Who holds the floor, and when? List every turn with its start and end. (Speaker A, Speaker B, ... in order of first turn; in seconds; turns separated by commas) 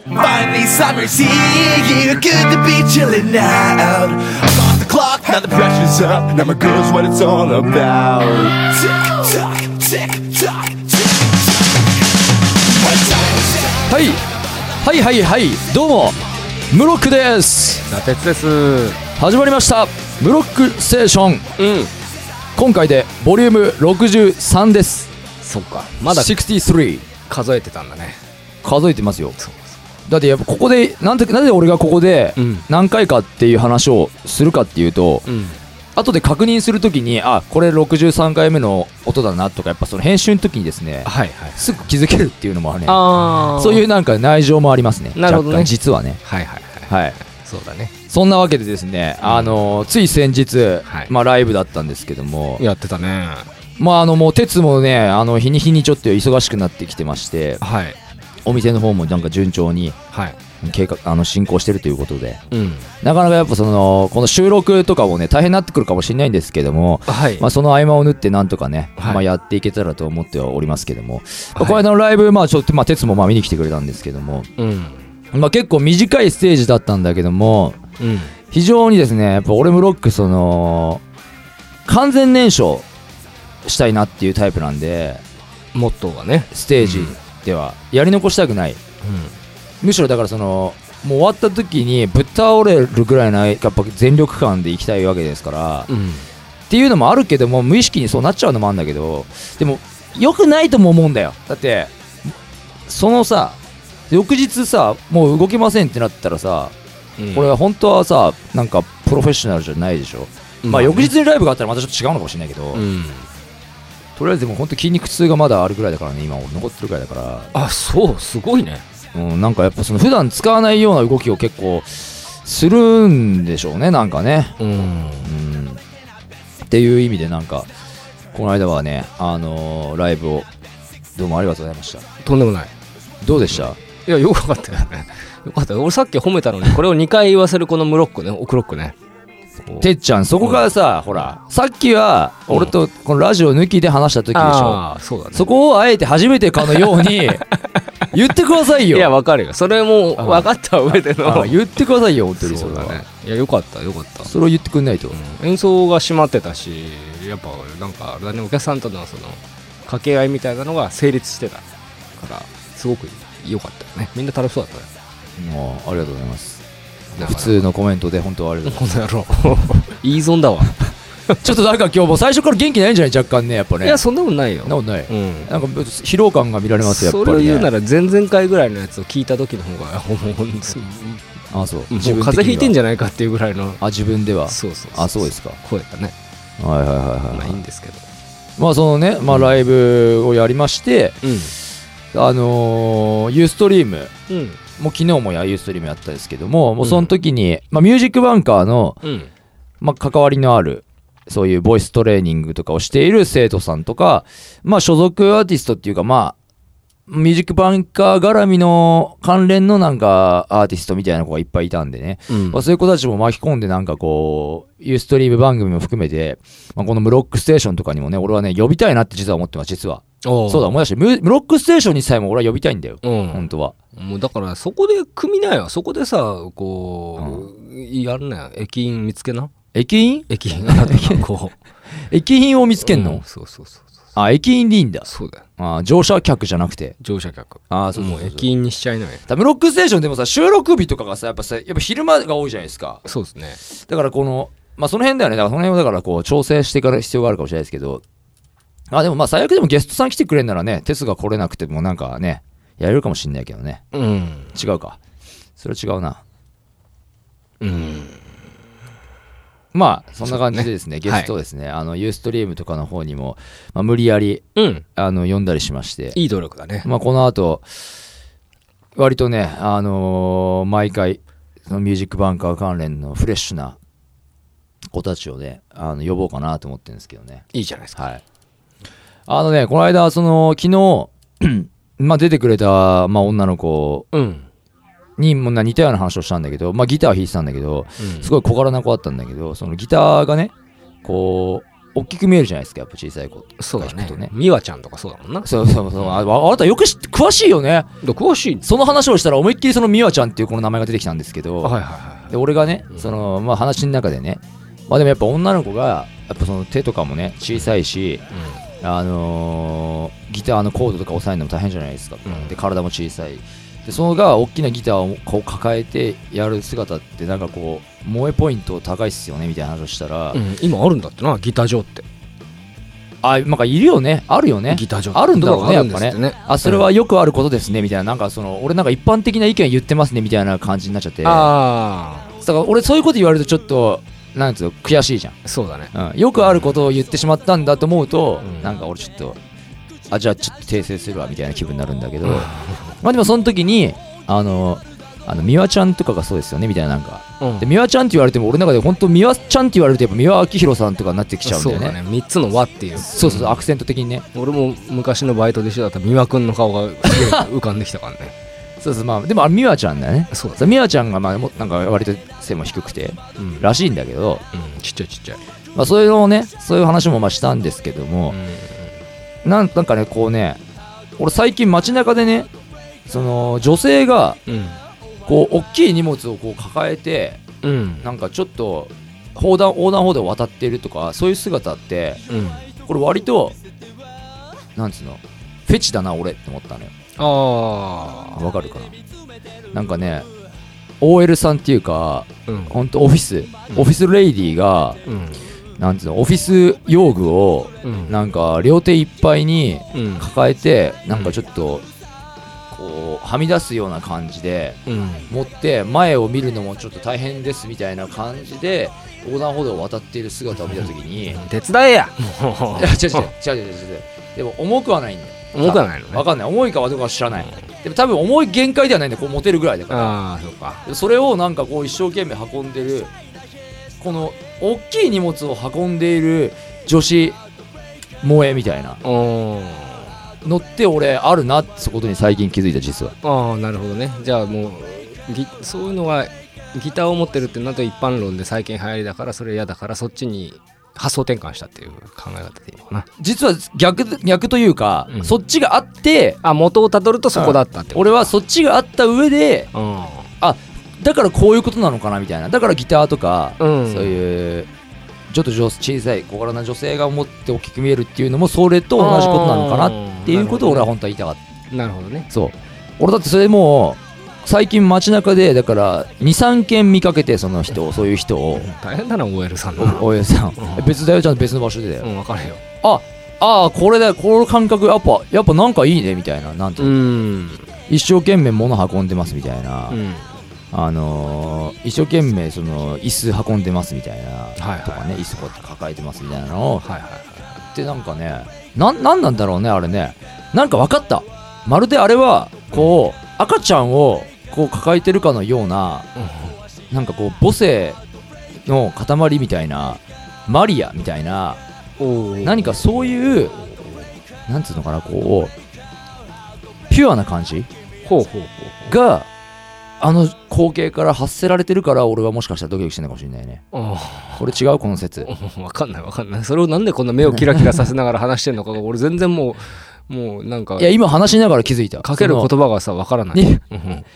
Speaker A: 0.1-11.2, Speaker A: 12.8-13.8, Speaker B: 13.9-14.2, Speaker B: 14.8-16.2, Speaker B: 16.7-17.9, Speaker C: 17.9-19.0, Speaker B: 19.2-21.5, Speaker C: 21.6-21.9, Speaker B: 22.6-25.1, Speaker C: 25.4-26.4, Speaker B: 26.1-27.1, Speaker C: 27.3-28.2, Speaker B: 28.6-29.4, Speaker C: 29.4-29.8, Speaker B: 30.1-35.3, Speaker C: 32.4-32.6, Speaker C: 35.3-35.6, Speaker B: 36.0-46.2, Speaker C: 41.0-41.6, Speaker C: 42.9-43.9, Speaker C: 45.1-47.9, Speaker B: 46.9-47.2, Speaker B: 48.1-52.6, Speaker C: 49.2-49.7, Speaker C: 52.6-53.5, Speaker B: 53.8-57.6, Speaker C: 57.6-58.0, Speaker B: 58.5-60.0, Speaker C: 60.1-60.4, Speaker B: 60.6-62.4, Speaker C: 62.5-62.9, Speaker B: 63.0-74.5, Speaker C: 67.1-67.5, Speaker C: 69.0-69.2, Speaker C: 71.6-71.8, Speaker C: 74.6-75.0, Speaker B: 75.3-77.8, Speaker C: 78.0-78.3, Speaker B: 78.5-81.0, Speaker B: 81.9-82.9, Speaker B: 83.6-85.2, Speaker C: 85.7-87.2, Speaker B: 86.5-88.8, Speaker C: 89.0-89.4, Speaker B: 89.8-95.9, Speaker C: 95.9-96.3, Speaker B: 96.7-101.9, Speaker B: 102.9-103.6, Speaker B: 104.1-106.8, Speaker C: 107.2-107.6, Speaker B: 107.3-112.8, Speaker C: 110.6-111.1, Speaker C: 112.7-113.3, Speaker B: 114.2-117.5, Speaker C: 117.5-118.8, Speaker B: 119.1-124.6, Speaker C: 124.6-125.3, Speaker B: 125.2-125.8, Speaker B: 126.7-127.7, Speaker B: 128.3-130.5, Speaker B: 131.2-132.1, Speaker C: 132.2-132.7, Speaker B: 133.2-133.8, Speaker C: 133.4-139.0, Speaker B: 139.8-147.4, Speaker C: 140.4-140.7, Speaker C: 142.5-142.7, Speaker C: 144.3-145.5, Speaker C: 146.6-151.6, Speaker B: 148.1-149.1, Speaker B: 150.2-150.5, Speaker B: 151.2-153.0, Speaker C: 152.4-154.3, Speaker B: 154.2-155.2, Speaker C: 155.1-164.9, Speaker B: 165.4-168.9, Speaker C: 167.2-167.6, Speaker C: 168.7-170.8, Speaker B: 171.4-174.0, Speaker C: 173.8-175.5, Speaker B: 174.6-177.7, Speaker C: 176.8-181.2, Speaker B: 181.5-182.8, Speaker C: 181.9-183.8, Speaker B: 183.8-185.6, Speaker C: 184.5-186.2, Speaker B: 186.6-187.6, Speaker C: 187.3-188.1, Speaker B: 188.6-191.2, Speaker C: 189.3-189.6, Speaker C: 191.2-191.6, Speaker B: 192.1-194.1, Speaker C: 194.3-194.6, Speaker B: 194.8-199.0, Speaker C: 196.8-197.1, Speaker C: 199.0-199.3, Speaker B: 199.8-206.4, Speaker B: 207.1-223.8, Speaker C: 212.3-212.6, Speaker C: 220.2-220.8, Speaker C: 223.0-229.5, Speaker B: 227.2-227.5, Speaker B: 229.7-231.2, Speaker C: 230.3-231.6, Speaker B: 232.1-233.2, Speaker C: 232.8-233.9, Speaker B: 234.2-236.9, Speaker C: 235.1-235.4, Speaker C: 237.0-239.2, Speaker B: 237.7-238.5, Speaker B: 239.3-243.0, Speaker C: 243.1-243.6, Speaker B: 243.7-248.0, Speaker B: 248.9-253.8, Speaker C: 253.9-254.5, Speaker B: 254.5-255.0, Speaker B: 255.6-256.2, Speaker C: 257.6-258.2, Speaker B: 259.7-264.4, Speaker C: 260.3-261.3, Speaker C: 264.6-264.9, Speaker B: 265.0-266.2, Speaker C: 266.1-266.9, Speaker B: 266.8-267.7, Speaker B: 269.0-273.8, Speaker B: 274.9-278.2, Speaker C: 277.5-278.0, Speaker B: 279.3-284.1, Speaker C: 284.1-284.5, Speaker B: 285.2-290.5, Speaker C: 288.0-288.3, Speaker B: 291.0-294.3, Speaker C: 293.6-296.3, Speaker B: 295.4-297.9, Speaker C: 298.0-298.7, Speaker B: 298.6-301.8, Speaker C: 301.6-302.3, Speaker B: 302.3-308.2, Speaker C: 308.3-308.6, Speaker B: 308.8-320.4, Speaker C: 312.3-312.6, Speaker C: 320.3-322.1, Speaker B: 323.2-331.6, Speaker C: 324.7-326.9, Speaker C: 331.2-332.3, Speaker B: 332.4-335.4, Speaker C: 335.4-335.9, Speaker B: 335.9-339.4, Speaker C: 338.4-338.8, Speaker B: 340.1-352.0, Speaker C: 342.2-342.9, Speaker C: 347.4-347.7, Speaker C: 351.4-353.7, Speaker B: 353.0-354.3, Speaker C: 354.3-358.4, Speaker B: 357.1-357.5, Speaker B: 358.8-364.4, Speaker C: 360.3-360.7, Speaker C: 363.4-363.7, Speaker C: 364.5-365.4, Speaker B: 365.8-368.4, Speaker C: 368.3-368.9, Speaker B: 369.4-370.6, Speaker B: 371.2-372.5, Speaker B: 373.1-374.4, Speaker C: 374.5-374.8, Speaker B: 375.3-377.4, Speaker C: 377.6-378.1, Speaker B: 378.0-382.2, Speaker C: 382.3-382.6, Speaker B: 382.9-383.6, Speaker B: 384.8-386.9, Speaker C: 387.2-388.4, Speaker B: 388.3-389.0, Speaker B: 389.7-390.3, Speaker B: 391.0-395.0, Speaker C: 392.5-392.7, Speaker C: 395.1-395.4, Speaker B: 395.8-401.9, Speaker C: 397.8-398.1, Speaker C: 399.9-400.3, Speaker B: 402.7-411.4, Speaker C: 404.9-405.3, Speaker C: 410.7-413.3, Speaker B: 412.8-420.2, Speaker C: 415.5-416.3, Speaker C: 419.9-420.8, Speaker B: 420.9-423.1, Speaker B: 424.0-427.4, Speaker B: 428.2-429.0, Speaker C: 429.0-430.1, Speaker B: 430.4-433.1, Speaker C: 433.2-443.1, Speaker B: 443.2-446.4, Speaker C: 445.1-445.4, Speaker C: 446.4-448.3, Speaker B: 447.3-449.7, Speaker C: 449.7-450.3, Speaker B: 450.4-454.7, Speaker C: 453.6-454.2, Speaker B: 455.3-461.4, Speaker C: 459.0-460.9, Speaker C: 461.7-462.3, Speaker B: 462.3-468.7, Speaker C: 468.6-471.0, Speaker B: 469.8-472.1, Speaker C: 472.0-472.6, Speaker B: 472.8-477.0, Speaker C: 476.8-477.7, Speaker B: 477.9-480.0, Speaker C: 479.9-480.3, Speaker B: 480.7-486.9, Speaker C: 484.6-485.2, Speaker C: 486.8-487.6, Speaker B: 487.7-496.1, Speaker C: 496.2-496.6, Speaker B: 496.9-498.0, Speaker B: 498.7-501.6, Speaker C: 502.0-504.0, Speaker B: 502.4-503.6, Speaker B: 504.5-505.5, Speaker B: 506.9-507.7, Speaker C: 508.1-508.9, Speaker B: 508.9-509.3, Speaker B: 510.0-513.6, Speaker C: 513.7-514.5, Speaker B: 514.4-515.3, Speaker C: 515.2-520.9, Speaker B: 520.8-522.5, Speaker C: 522.0-524.1, Speaker B: 523.3-523.6